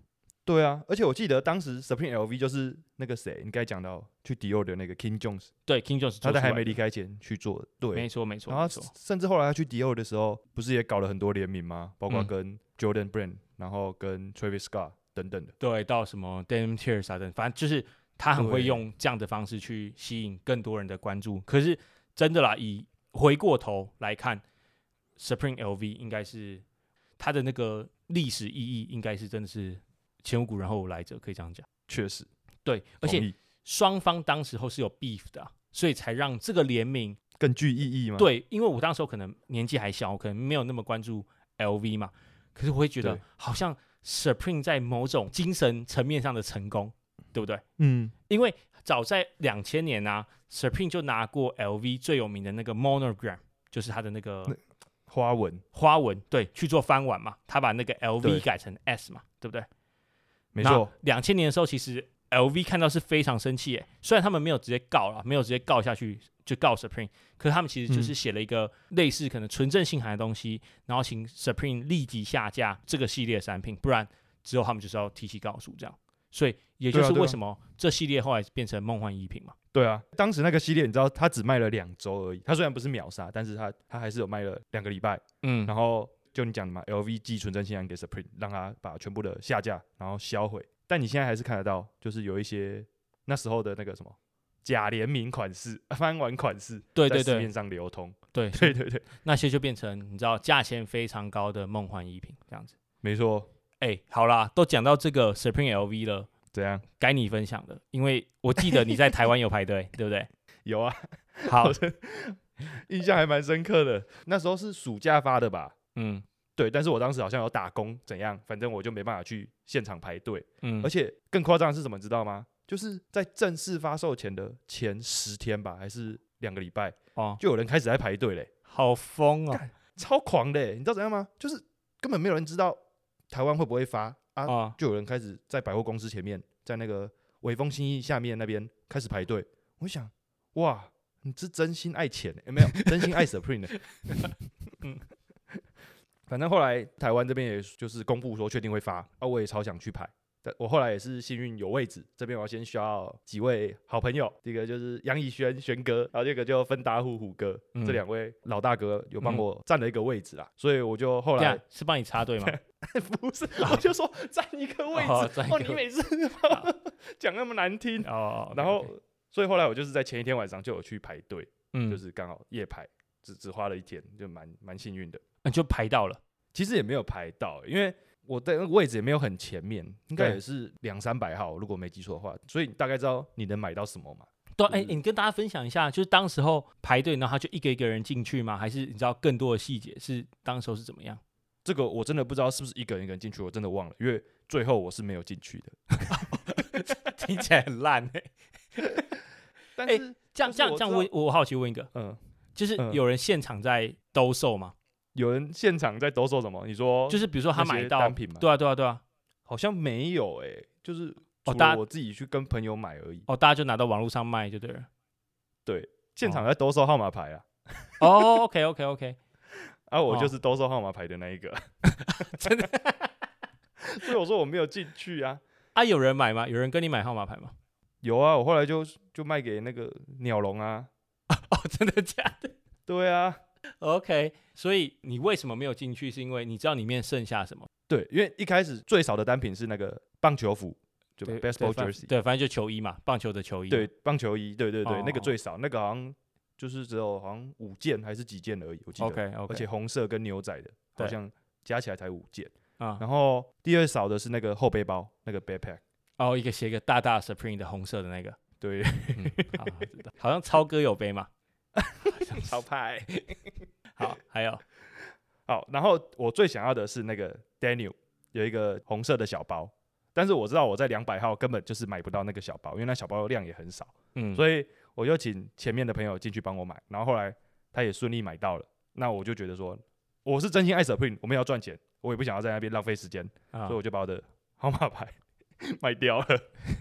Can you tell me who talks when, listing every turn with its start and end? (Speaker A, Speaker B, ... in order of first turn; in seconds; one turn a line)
Speaker A: 0.5-5.5
Speaker B: 5.7-6.8
Speaker A: 6.2-15.5
Speaker B: 7.9-8.9
Speaker B: 15.6-24.4
Speaker A: 18.4-18.8
Speaker B: 25.2-26.6
Speaker B: 27.2-31.7
Speaker A: 31.9-32.3
Speaker B: 32.6-37.2
Speaker A: 33.0-33.3
Speaker A: 37.4-38.3
Speaker B: 38.2-47.6
Speaker A: 47.8-48.1
Speaker B: 48.3-54.5
Speaker A: 55.1-55.6
Speaker B: 55.7-59.7
Speaker A: 60.5-60.9
Speaker B: 60.6-79.5
Speaker A: 67.9-68.1
Speaker A: 76.9-77.4
Speaker A: 79.7-99.0
Speaker B: 85.4-85.7
Speaker B: 96.9-97.5
Speaker B: 98.3-102.8
Speaker A: 103.0-103.5
Speaker B: 103.8-106.3
Speaker A: 106.5-106.8
Speaker B: 107.0-110.3
Speaker A: 110.7-115.7
Speaker B: 111.5-111.8
Speaker B: 116.0-116.2
Speaker A: 116.6-128.5
Speaker B: 120.6-120.9
Speaker B: 127.2-127.4
Speaker B: 128.7-129.6
Speaker A: 129.5-132.8
Speaker A: 133.3-144.3
Speaker B: 134.5-134.8
Speaker B: 142.7-143.2
Speaker B: 144.0-145.0
Speaker A: 146.3-161.6
Speaker B: 157.7-158.0
Speaker B: 161.4-162.6
Speaker A: 162.4-175.2
Speaker B: 164.9-165.8
Speaker B: 168.0-168.9
Speaker B: 171.7-172.0
Speaker B: 175.4-176.2
Speaker A: 176.5-184.9
Speaker B: 184.6-191.2
Speaker A: 191.6-196.9
Speaker B: 196.1-199.1
Speaker A: 199.8-201.1
Speaker B: 199.8-201.9
Speaker A: 201.9-202.2
Speaker B: 202.6-204.7
Speaker A: 205.1-208.4
Speaker B: 207.1-209.0
Speaker A: 209.5-213.3
Speaker B: 211.4-211.8
Speaker B: 213.3-214.9
Speaker A: 215.7-218.1
Speaker B: 218.0-219.2
Speaker A: 219.9-221.6
Speaker B: 221.9-223.1
Speaker A: 223.8-225.4
Speaker B: 225.7-227.5
Speaker A: 228.0-230.9
Speaker B: 231.3-232.5
Speaker A: 232.9-233.4
Speaker B: 233.8-237.7
Speaker A: 237.9-242.1
Speaker B: 241.2-243.9
Speaker A: 243.7-255.8
Speaker B: 244.8-245.3
Speaker B: 249.0-249.7
Speaker B: 256.2-258.4
Speaker A: 258.6-259.8
Speaker B: 259.1-261.3
Speaker A: 261.8-263.4
Speaker B: 262.1-262.6
Speaker B: 263.9-264.6
Speaker A: 265.5-286.5
Speaker B: 274.1-274.4